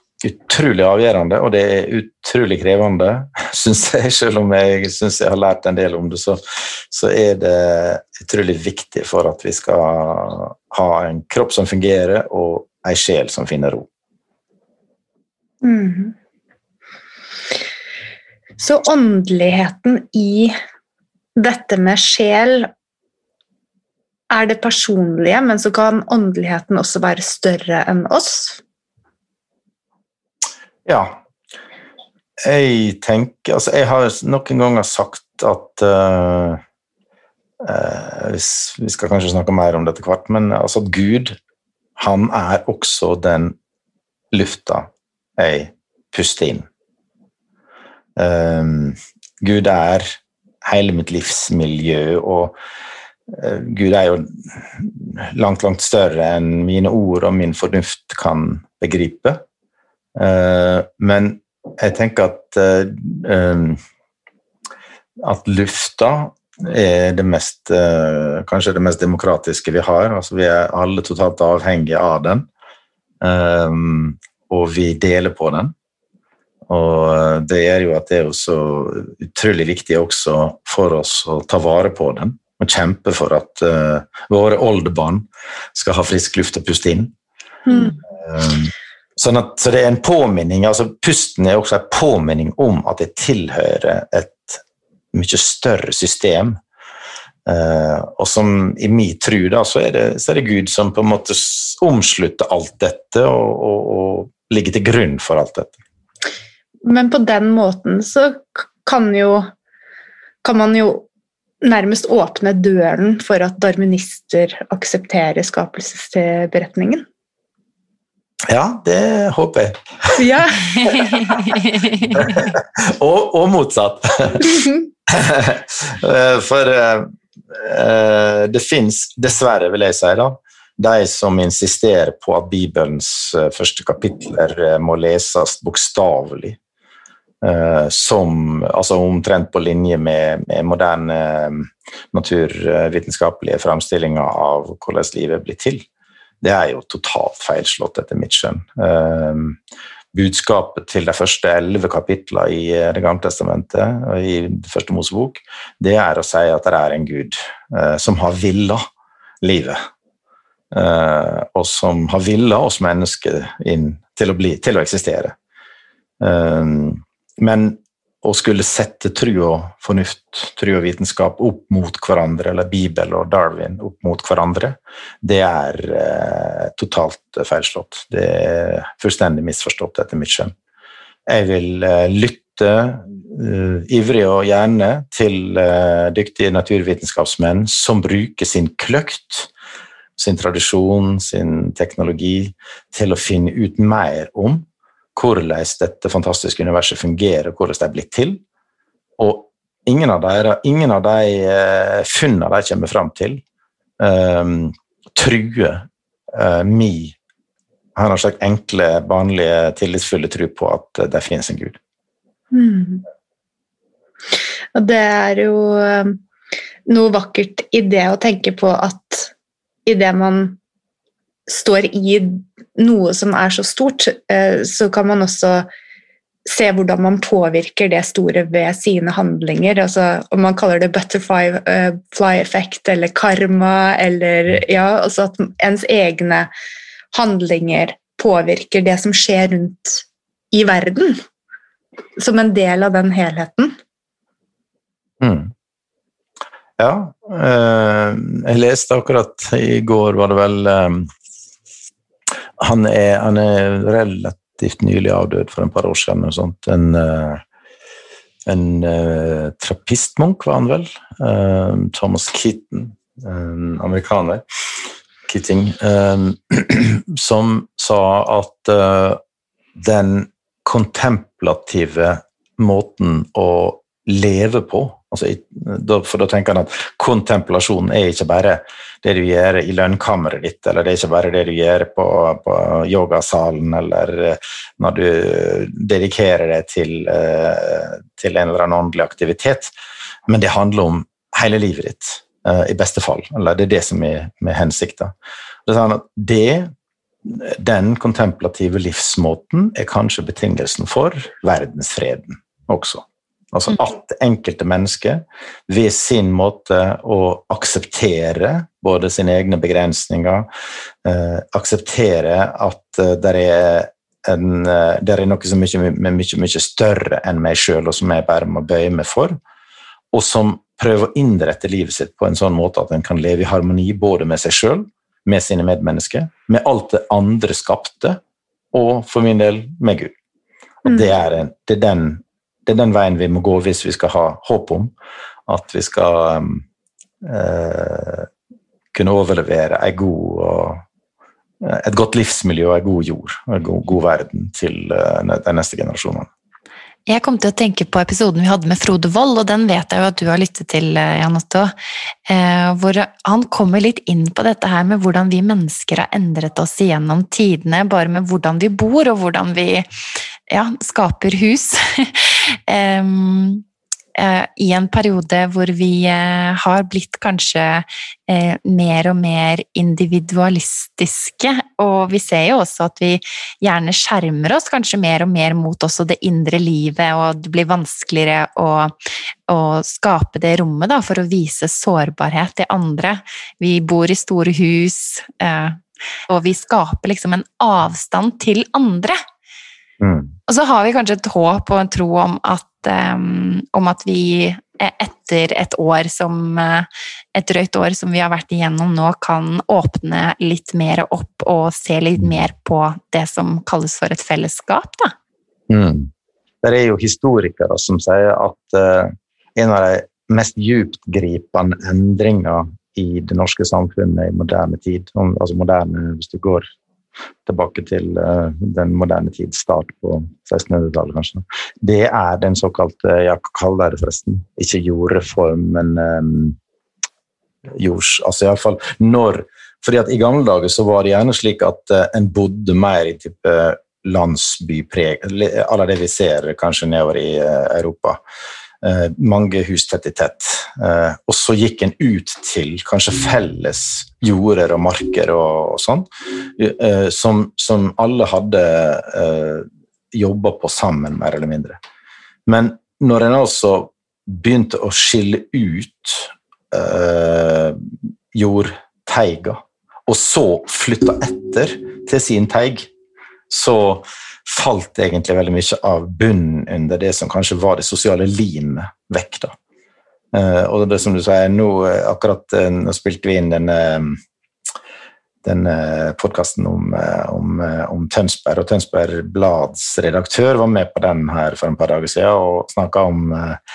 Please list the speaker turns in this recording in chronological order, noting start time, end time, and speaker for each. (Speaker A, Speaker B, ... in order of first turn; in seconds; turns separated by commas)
Speaker A: 0.2-13.9, Speaker B: 15.6-16.1, Speaker B: 18.6-20.5, Speaker B: 21.4-22.7, Speaker B: 24.3-28.6, Speaker A: 30.9-31.2, Speaker A: 32.5-36.6, Speaker A: 37.6-41.4, Speaker A: 42.0-43.5, Speaker A: 44.3-46.7, Speaker A: 48.2-50.1, Speaker A: 50.6-52.5, Speaker A: 53.3-59.4, Speaker A: 60.2-63.8, Speaker A: 65.2-72.5, Speaker A: 73.2-75.7, Speaker A: 76.7-87.1, Speaker B: 87.7-88.0, Speaker A: 88.2-94.6, Speaker A: 95.1-96.6, Speaker A: 97.5-105.8, Speaker B: 106.8-109.5, Speaker B: 110.4-111.1, Speaker B: 111.6-117.0, Speaker A: 118.5-120.3, Speaker B: 120.2-121.5, Speaker C: 120.8-122.4, Speaker A: 120.9-121.4, Speaker A: 122.0-136.6, Speaker B: 124.5-124.8, Speaker A: 137.4-145.9, Speaker A: 146.4-149.6, Speaker A: 150.1-158.8, Speaker A: 159.4-159.8, Speaker A: 160.7-165.3, Speaker A: 166.2-180.5, Speaker A: 181.3-189.5, Speaker A: 190.2-198.4, Speaker A: 199.2-203.4, Speaker A: 204.0-207.2, Speaker A: 208.0-211.8, Speaker B: 212.5-213.0, Speaker B: 214.8-216.2, Speaker B: 216.9-219.3, Speaker B: 219.9-220.6, Speaker B: 221.5-225.7, Speaker B: 226.4-236.5, Speaker B: 237.1-241.2, Speaker B: 242.2-243.7, Speaker A: 245.2-245.5, Speaker A: 246.8-251.1, Speaker A: 252.6-257.4, Speaker A: 258.5-264.4, Speaker A: 265.3-269.2, Speaker A: 269.8-289.7, Speaker A: 290.3-295.1, Speaker A: 295.7-296.7, Speaker A: 297.2-310.5, Speaker A: 311.0-319.4, Speaker A: 320.1-328.2, Speaker A: 328.7-330.1, Speaker A: 330.8-334.9, Speaker A: 335.5-336.6, Speaker A: 337.2-338.3, Speaker A: 338.9-340.8, Speaker A: 341.6-346.3, Speaker C: 347.1-351.7, Speaker C: 352.3-359.9, Speaker C: 360.5-363.6, Speaker C: 364.1-378.9, Speaker C: 379.5-389.2, Speaker A: 390.0-390.3, Speaker C: 390.5-405.1, Speaker A: 405.7-406.1, Speaker A: 406.6-416.6, Speaker A: 417.5-426.6, Speaker A: 427.8-438.2, Speaker A: 438.8-451.8, Speaker A: 452.5-457.8, Speaker A: 458.3-462.9, Speaker A: 463.5-469.6, Speaker A: 470.3-474.2, Speaker A: 475.4-483.6